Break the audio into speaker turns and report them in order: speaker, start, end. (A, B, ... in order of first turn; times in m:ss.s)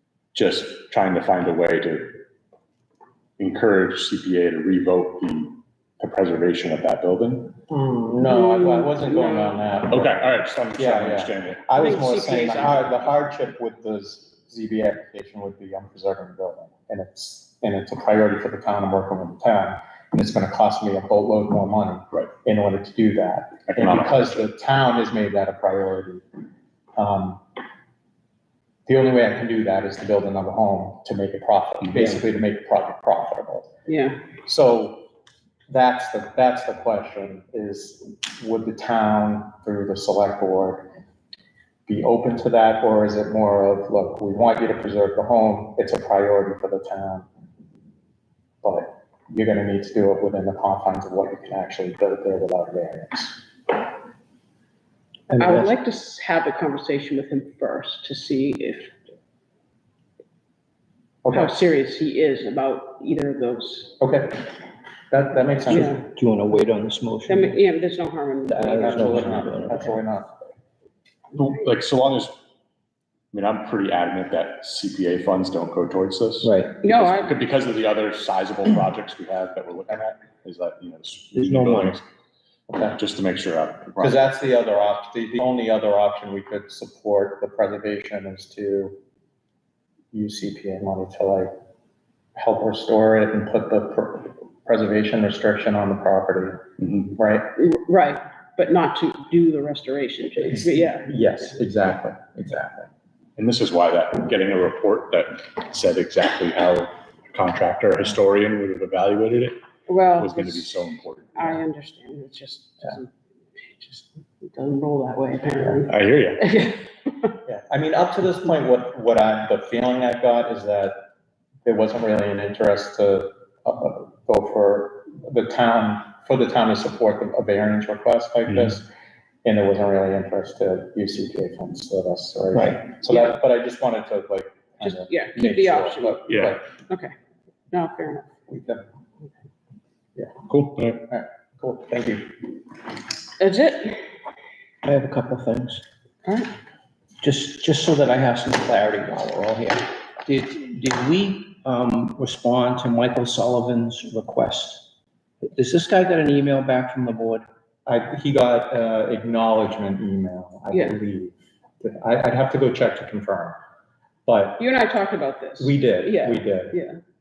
0:00.3-0:02.2 A
0:03.4-0:07.6 A
0:07.7-0:10.2 B
0:08.2-0:09.7 C
0:09.9-0:11.6 A
0:10.7-0:26.2 B
0:11.7-0:12.8 C
0:23.7-0:24.3 A
0:26.9-0:27.4 B
0:28.9-0:33.7 B
0:33.9-0:34.2 C
0:34.4-0:35.0 B
0:35.7-0:40.9 B
0:41.9-0:47.3 B
0:48.6-0:53.4 B
0:55.3-0:58.9 C
1:01.2-1:01.5 B
1:01.3-1:04.0 C
1:04.0-1:04.5 B
1:05.1-1:05.9 B
1:05.7-1:06.0 C
1:05.7-1:07.6 D
1:07.3-1:09.7 C
1:08.5-1:10.0 D
1:08.8-1:10.3 B
1:11.3-1:12.3 A
1:13.3-1:22.0 A
1:16.4-1:16.8 D
1:16.8-1:17.4 C
1:21.3-1:22.0 D
1:22.7-1:23.0 B
1:23.0-1:24.2 A
1:24.0-1:29.0 B
1:30.1-1:31.5 B
1:32.4-1:37.5 B
1:36.8-1:37.1 A
1:37.6-1:41.2 C
1:40.5-1:42.9 B
1:43.4-1:49.6 A
1:49.9-1:50.7 C
1:50.2-1:51.6 A
1:51.3-1:56.8 C
1:55.9-1:56.5 A
1:57.4-2:01.0 B
2:01.6-2:08.9 B
2:08.5-2:08.8 A
2:09.4-2:16.7 B
2:12.5-2:12.9 D
2:14.8-2:17.1 C
2:16.3-2:16.6 A
2:17.7-2:18.3 C
2:18.5-2:18.8 B
2:20.5-2:21.0 A
2:21.1-2:22.3 B
2:23.4-2:24.0 C
2:24.8-2:25.8 D
2:26.2-2:26.5 C
2:27.2-2:34.9 D
2:35.4-2:37.4 D
2:37.8-2:43.6 B
2:40.7-2:41.0 C
2:44.2-2:44.6 B
2:44.6-2:47.0 C
2:45.6-2:46.8 B